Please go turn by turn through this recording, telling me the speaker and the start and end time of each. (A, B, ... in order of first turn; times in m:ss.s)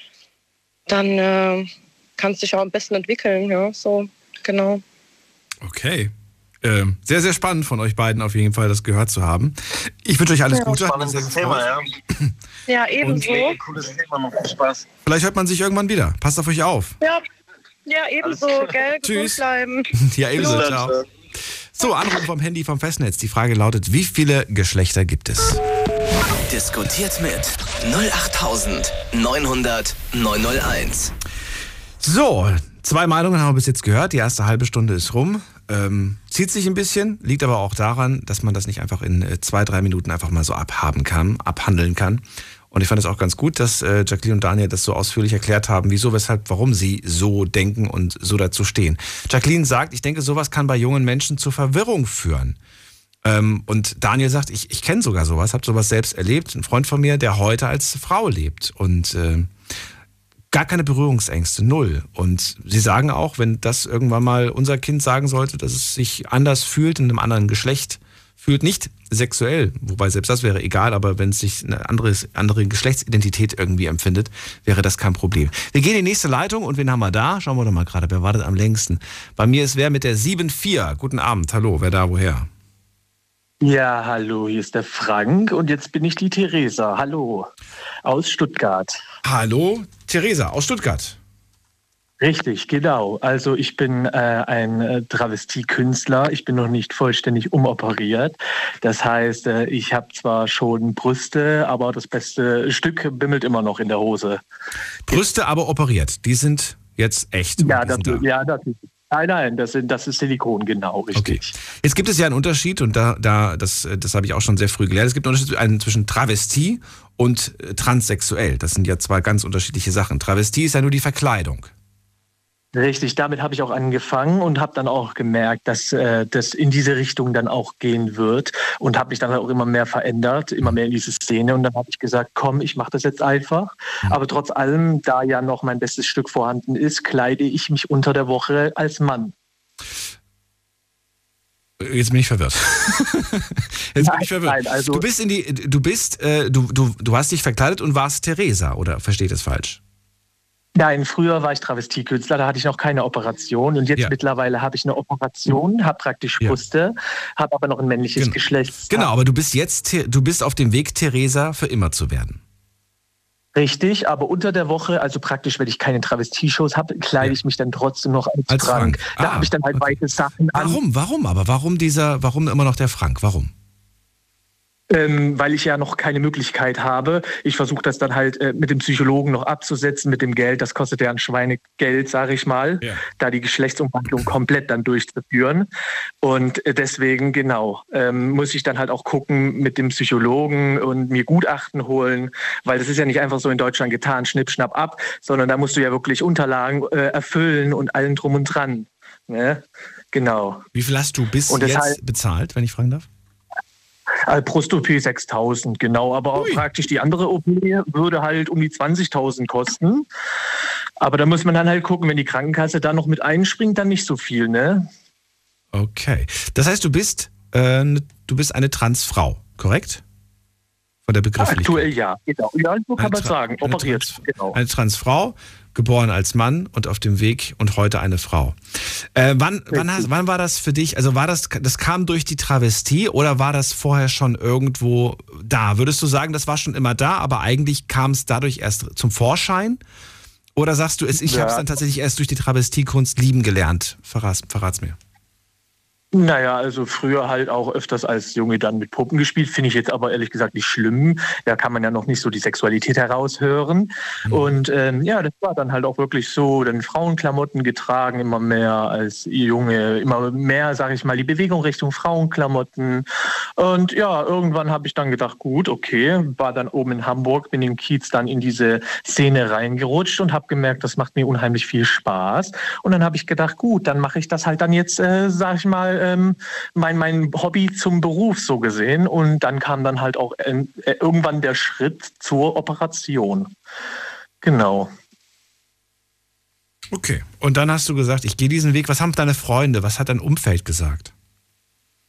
0:00.9-0:04.8 A
0:05.6-0:11.6 B
0:10.7-0:11.9 C
0:12.7-0:13.6 A
0:13.0-0:14.8 C
0:15.0-0:17.0 B
0:17.9-0:20.6 A
0:18.2-0:18.7 C
0:19.0-0:19.4 B
0:20.0-0:20.9 B
0:20.4-0:21.1 C
0:21.7-0:25.6 B
0:26.5-0:31.1 D
0:32.0-0:52.6 B
0:53.2-0:59.5 B
1:00.5-1:22.5 B
1:23.6-1:27.5 E
1:28.0-1:29.0 E
1:29.2-1:31.2 B
1:32.2-1:44.4 E
1:45.1-1:48.2 B
1:47.6-1:51.5 E
1:51.1-2:01.7 B
2:02.7-2:19.3 E
2:21.8-2:29.8 B
2:24.0-2:25.0 E
2:30.8-2:39.1 E
2:38.2-2:42.4 B
2:43.5-2:50.8 E
2:48.5-2:53.5 B
2:54.9-3:05.7 E
3:06.2-3:20.6 E
3:20.7-3:23.1 B
3:21.5-3:22.0 E
3:24.3-3:30.0 E
3:26.4-3:26.6 B
3:31.0-3:34.9 E
3:35.7-3:40.0 B
3:41.1-3:41.9 B
3:41.4-3:44.6 E
3:43.0-3:59.8 B
3:49.7-3:50.1 E
4:00.5-4:05.0 B
4:01.2-4:01.7 E
4:06.1-4:23.0 E
4:14.2-4:14.5 B
4:23.6-4:43.5 E
4:44.4-4:44.9 E
4:46.9-4:51.1 B